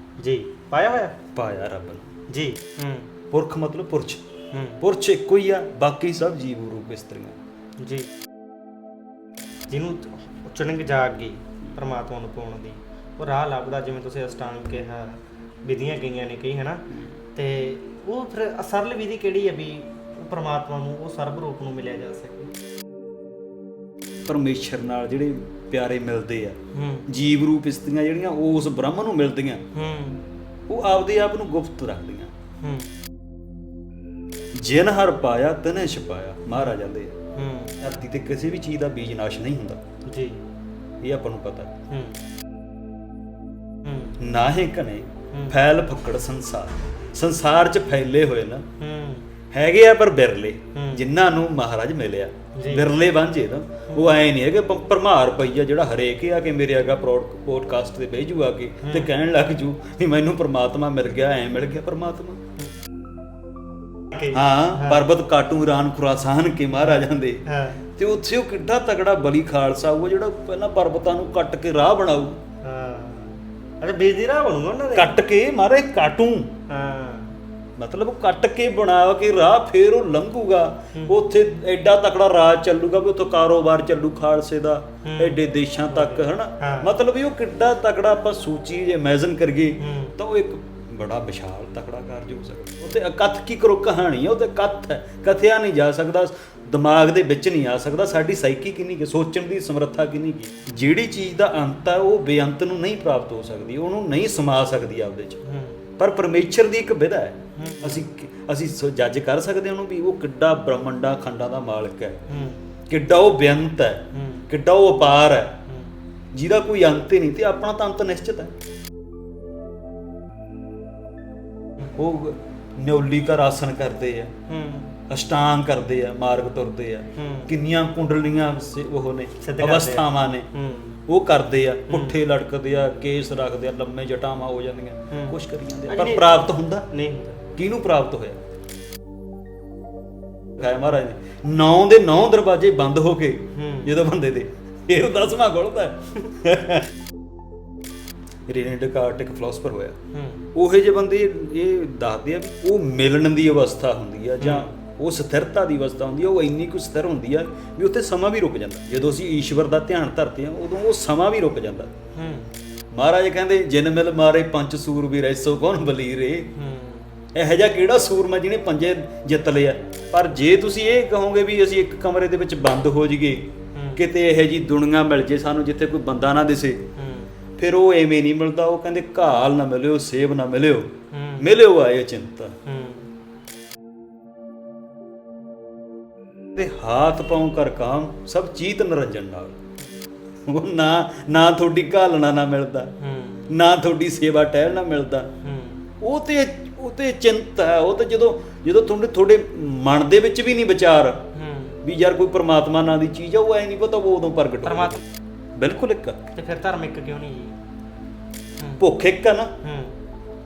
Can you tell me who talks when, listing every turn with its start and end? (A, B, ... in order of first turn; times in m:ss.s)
0:00.2-0:01.2 A
0:01.3-0:02.1 B
0:02.3-0:03.1 A
0:03.3-0:04.2 B
0:04.5-0:04.8 A
0:04.8-0:07.4 B
0:07.8-0:08.1 A
0:09.7-0:22.5 A
0:24.3-0:29.6 B
0:26.7-0:27.1 A
0:29.7-0:30.2 A
0:30.7-0:32.3 B
0:32.6-0:32.9 A
0:34.5-0:37.2 B
0:37.3-0:37.8 A
0:37.8-0:39.8 B
0:40.0-0:40.4 A
0:41.0-0:41.7 B
0:41.9-0:42.2 A
0:43.8-0:44.2 A
0:44.2-0:48.6 B
0:45.3-0:45.6 A
0:48.8-0:49.3 A
0:49.5-1:02.4 B
0:50.7-0:51.1 A
0:52.6-0:52.9 A
0:53.9-0:54.2 A
0:58.8-0:59.1 A
1:04.2-1:05.0 A
1:04.2-1:12.4 B
1:06.8-1:07.8 A
1:12.6-1:15.2 A
1:14.9-1:16.5 B
1:16.7-1:17.4 A
1:17.8-1:45.4 B
1:25.0-1:26.9 A
1:29.8-1:30.2 A
1:45.4-1:45.8 A
1:46.0-1:52.2 B
1:47.6-1:48.0 A
1:52.3-1:52.6 A
1:52.9-1:55.6 B
1:54.1-1:54.5 A
1:55.7-1:55.9 A
1:56.3-1:58.5 B
2:01.9-2:04.4 B
2:04.5-2:05.0 A
2:05.1-2:10.5 B
2:07.1-2:07.5 A
2:09.4-2:11.0 A
2:11.1-2:16.9 B
2:11.9-2:12.2 A
2:15.1-2:17.4 A
2:17.6-2:18.4 B
2:20.6-2:26.9 B
2:23.5-2:24.0 A
2:28.5-2:30.0 B
2:30.1-2:30.5 A
2:30.5-2:41.9 B
2:34.4-2:34.7 A
2:42.1-2:42.5 A
2:42.9-2:46.5 B
2:46.5-2:47.2 A
2:47.3-2:56.8 B
2:53.7-2:54.0 A
2:57.0-2:57.3 A
2:57.6-3:02.6 B
3:01.1-3:01.5 A
3:02.6-3:03.1 A
3:06.5-3:09.6 B
3:10.4-3:12.9 B
3:13.0-3:13.6 A
3:13.5-3:15.3 B
3:15.4-3:15.9 A
3:16.0-3:21.2 B
3:21.3-3:21.8 A
3:21.8-3:25.0 B
3:24.6-3:25.0 A
3:25.6-3:26.2 B
3:26.3-3:27.6 A
3:28.8-3:29.6 B
3:29.6-3:30.0 A